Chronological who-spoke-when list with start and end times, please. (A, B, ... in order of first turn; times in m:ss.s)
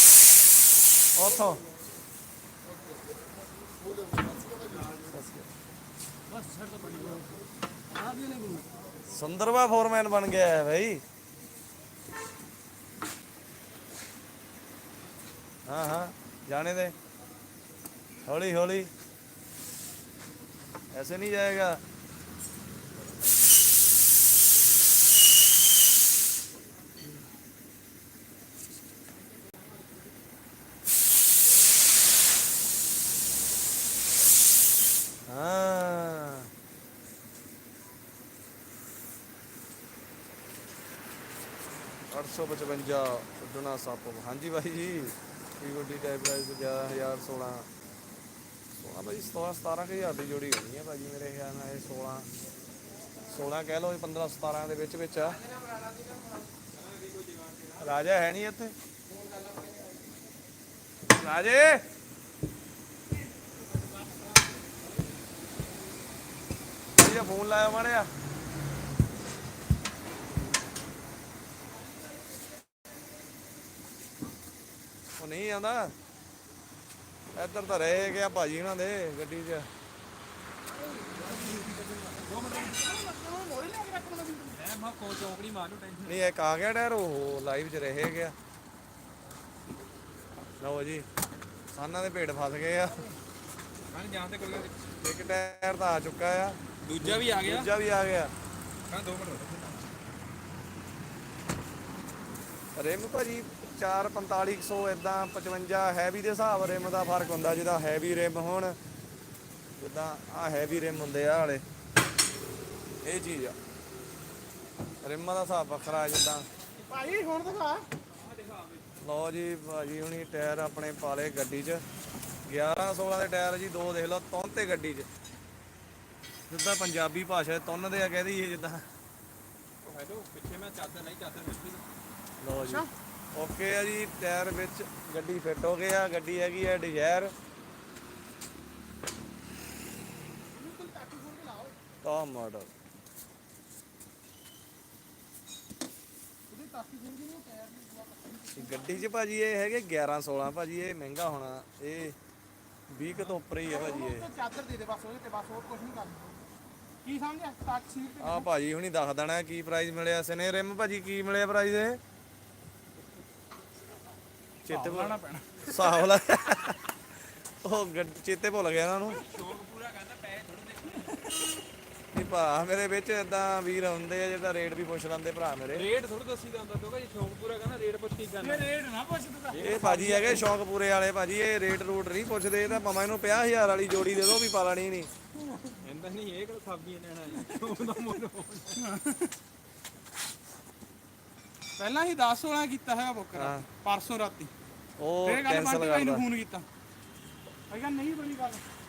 0:01.1-0:01.6 A
0:05.0-0:05.5 A
0:06.3-0:07.3 B
0:07.9-0:08.7 B
0:09.1-0:11.0 A
0:15.6-0:16.9 A
0:18.2-0:18.9 A
0:20.9-0:21.8 A
0:35.2-0:36.5 A
0:42.1-0:47.7 A
0:48.7-0:52.3 A
0:53.3-0:55.4 A
0:56.7-0:58.0 C
0:57.8-0:58.7 A
0:59.1-0:59.7 B
1:01.1-1:01.8 A
1:06.9-1:08.1 A
1:15.2-1:15.9 A
1:17.3-1:19.7 A
1:21.0-1:22.8 C
1:21.1-1:24.6 B
1:24.5-1:26.2 C
1:26.0-1:28.3 A
1:30.6-1:31.1 A
1:31.7-1:33.0 A
1:32.9-1:33.1 B
1:33.9-1:34.7 C
1:35.0-1:38.3 A
1:36.8-1:37.7 C
1:38.9-1:39.7 C
1:42.8-1:48.8 A
1:49.8-1:51.6 A
1:53.0-1:53.6 A
1:55.0-1:56.5 A
1:56.9-1:57.8 B
1:58.1-1:59.0 C
1:59.0-2:01.8 A
2:02.4-2:05.1 A
2:06.5-2:08.9 A
2:09.8-2:11.8 C
2:12.4-2:17.3 A
2:12.6-2:12.9 B
2:20.5-2:21.8 B
2:22.0-2:22.7 A
2:26.5-2:29.1 B
2:28.6-2:32.2 A
2:32.9-2:34.3 A
2:33.1-2:36.4 B
2:37.0-2:38.5 B
2:38.2-2:42.0 A
2:44.6-2:46.9 A
2:44.7-2:45.8 B
2:47.6-2:49.2 A
2:49.1-2:51.4 C
2:52.1-2:55.9 A
2:55.7-2:58.7 C
2:58.4-2:59.6 B
2:59.5-3:00.5 C
2:59.6-3:05.1 A
3:05.4-3:05.8 B
3:05.8-3:08.8 C
3:08.8-3:09.3 B
3:11.8-3:14.5 B
3:13.3-3:13.6 A
3:15.0-3:16.2 A
3:15.2-3:16.6 B
3:17.7-3:18.6 B